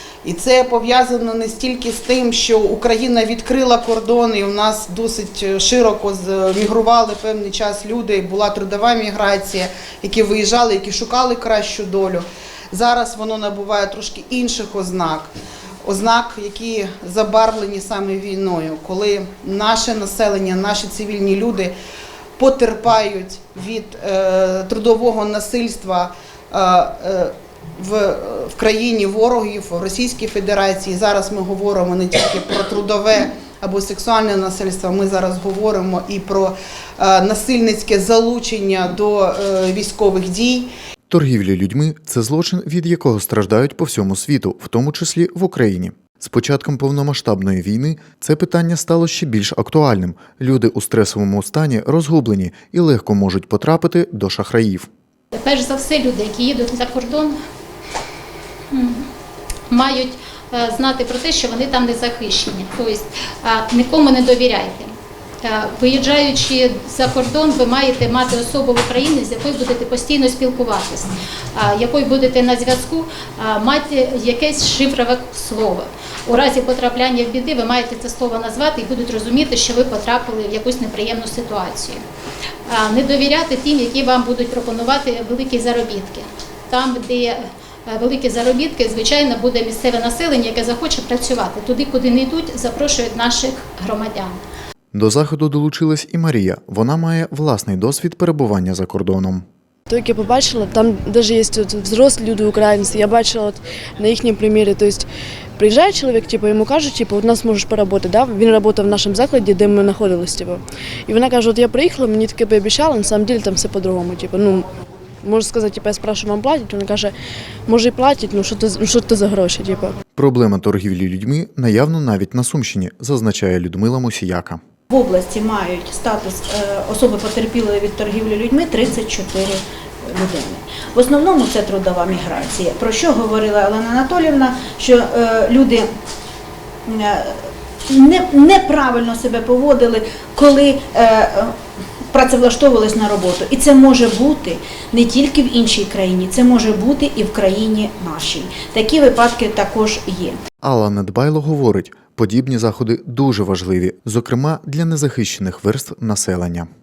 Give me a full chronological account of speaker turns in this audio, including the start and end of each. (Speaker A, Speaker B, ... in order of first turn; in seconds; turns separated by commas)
Speaker A: 0.2-15.3, Speaker A: 15.8-21.7, Speaker A: 22.4-40.7, Speaker B: 41.1-54.9, Speaker C: 55.3-57.4, Speaker C: 58.7-59.1, Speaker C: 59.7-82.0, Speaker C: 82.7-94.4, Speaker B: 94.9-99.4, Speaker D: 99.9-105.1, Speaker D: 105.6-114.7, Speaker D: 115.2-117.1, Speaker D: 117.7-120.0, Speaker B: 120.2-124.6, Speaker E: 124.9-135.9, Speaker E: 136.9-141.6, Speaker E: 142.1-150.4, Speaker B: 150.6-156.7